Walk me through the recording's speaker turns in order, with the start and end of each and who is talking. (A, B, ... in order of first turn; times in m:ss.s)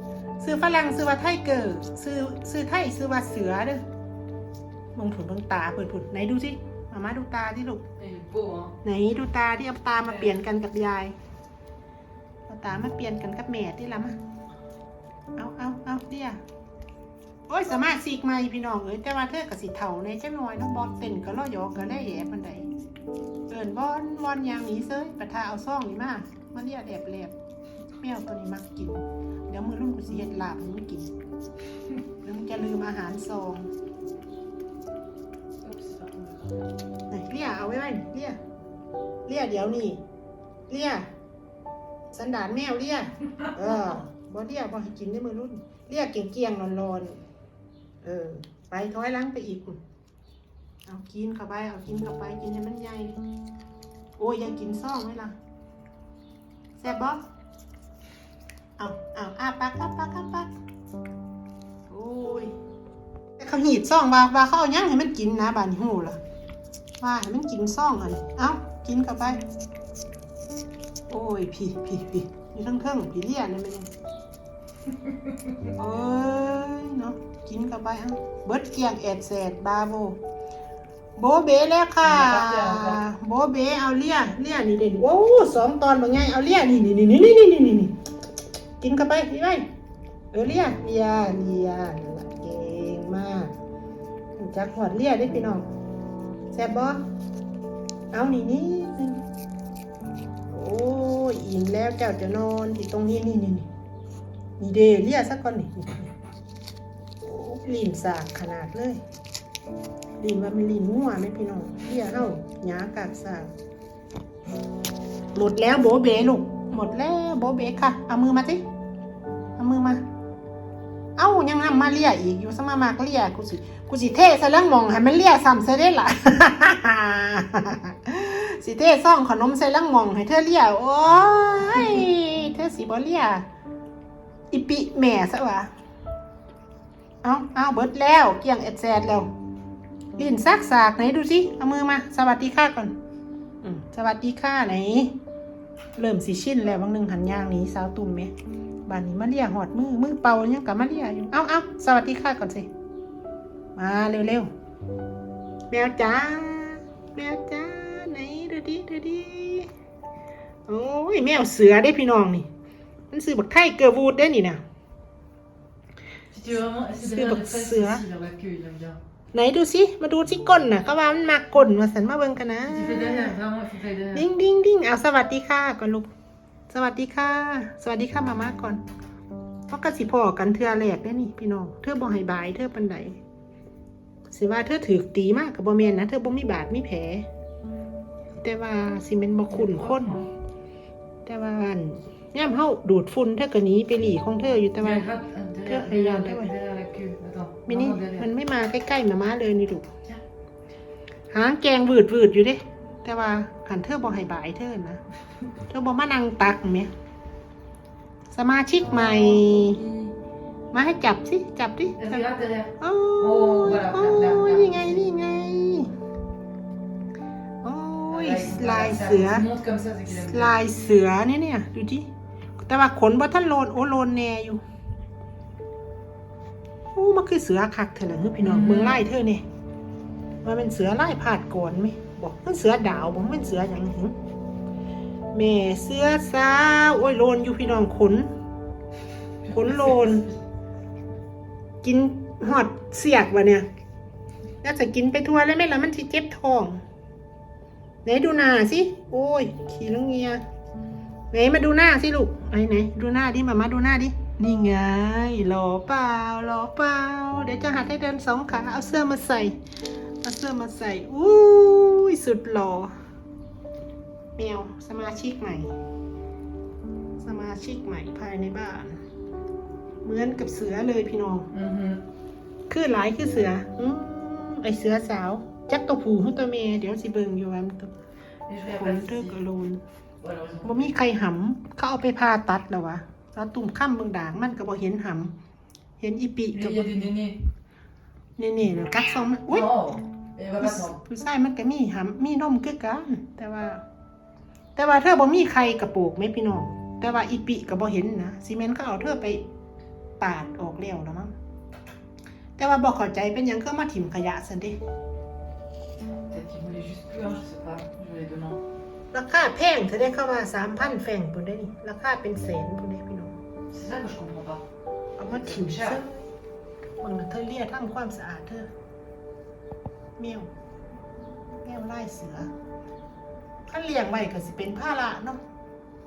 0:00.4-0:03.8 A
0:04.9-0:07.9 A
0:08.0-0:08.8 B
0:08.8-0:11.1 A
0:12.5-0:14.2 A
0:15.3-0:16.4 A
0:17.5-0:22.7 A
0:23.5-0:27.3 A
0:28.0-0:31.1 A
0:32.2-0:33.7 A
0:35.6-0:36.6 B
0:37.1-0:38.4 A
0:39.2-0:40.0 A
0:40.7-0:41.1 A
0:42.1-0:47.2 A
0:48.0-0:49.8 A
0:50.8-0:53.2 A
0:54.2-0:55.4 A
0:56.8-0:57.2 A
0:58.8-1:00.5 A
1:01.9-1:02.5 A
1:03.4-1:06.2 A
1:07.0-1:09.4 A
1:11.1-1:13.9 A
1:15.6-1:20.2 A
1:21.2-1:28.0 A
1:22.0-1:23.0 B
1:28.8-1:29.7 A
1:30.3-1:33.5 A
1:34.4-1:35.7 A
1:36.5-1:37.0 A
1:38.1-1:39.2 A
1:40.5-1:43.7 A
1:44.6-1:46.1 A
1:47.2-1:49.0 A
1:50.2-1:53.5 A
1:55.3-1:58.6 A
1:59.6-2:00.0 A
2:01.2-2:13.4 A
2:14.5-2:15.7 A
2:17.2-2:19.3 A
2:20.2-2:22.9 A
2:23.6-2:25.1 A
2:26.0-2:28.3 A
2:28.9-2:32.7 A
2:33.8-2:34.5 A
2:35.7-2:39.7 A
2:40.7-2:42.5 A
2:43.1-2:44.6 A
2:46.3-2:49.0 B
2:47.0-2:48.0 A
2:49.3-2:53.4 A
2:52.6-2:54.2 B
2:54.1-2:56.1 A
2:56.7-2:58.8 A
2:59.7-3:03.2 A
3:04.3-3:07.3 A
3:08.4-3:10.2 A
3:09.5-3:10.3 B
3:11.2-3:15.1 A
3:14.8-3:18.3 B
3:15.6-3:16.5 A
3:17.7-3:19.9 A
3:21.3-3:25.0 A
3:25.7-3:26.9 A
3:28.3-3:29.8 A
3:28.8-3:30.1 B
3:30.7-3:32.2 A
3:32.0-3:35.0 B
3:32.8-3:35.9 A
3:37.6-3:39.4 A
3:38.1-3:40.5 B
3:40.1-3:44.6 A
3:46.9-3:49.4 A
3:48.4-3:49.0 B
3:50.4-3:54.2 A
3:55.3-3:58.3 A
3:59.5-4:00.3 A
3:59.7-4:00.0 B
4:01.8-4:03.7 A
4:04.6-4:06.8 A
4:08.0-4:10.4 A
4:11.3-4:19.6 A
4:20.2-4:22.9 A
4:24.4-4:25.7 A
4:27.2-4:29.0 A
4:30.0-4:31.5 A
4:31.5-4:32.0 B
4:32.7-4:37.9 A
4:38.5-4:39.4 B
4:38.6-4:39.8 A
4:40.2-4:40.9 B
4:40.6-4:45.3 A
4:46.0-4:47.0 A
4:46.5-4:47.4 B
4:48.4-4:49.7 A
4:49.5-4:51.0 B
4:50.6-4:53.8 A
4:54.8-4:59.4 A
5:00.2-5:01.3 A
5:02.6-5:04.8 A
5:06.3-5:08.6 B
5:09.1-5:13.4 A
5:13.7-5:14.6 B
5:15.2-5:16.3 A
5:15.2-5:16.0 B
5:17.0-5:18.7 A
5:20.2-5:20.5 A
5:21.6-5:22.5 A
5:23.7-5:25.4 A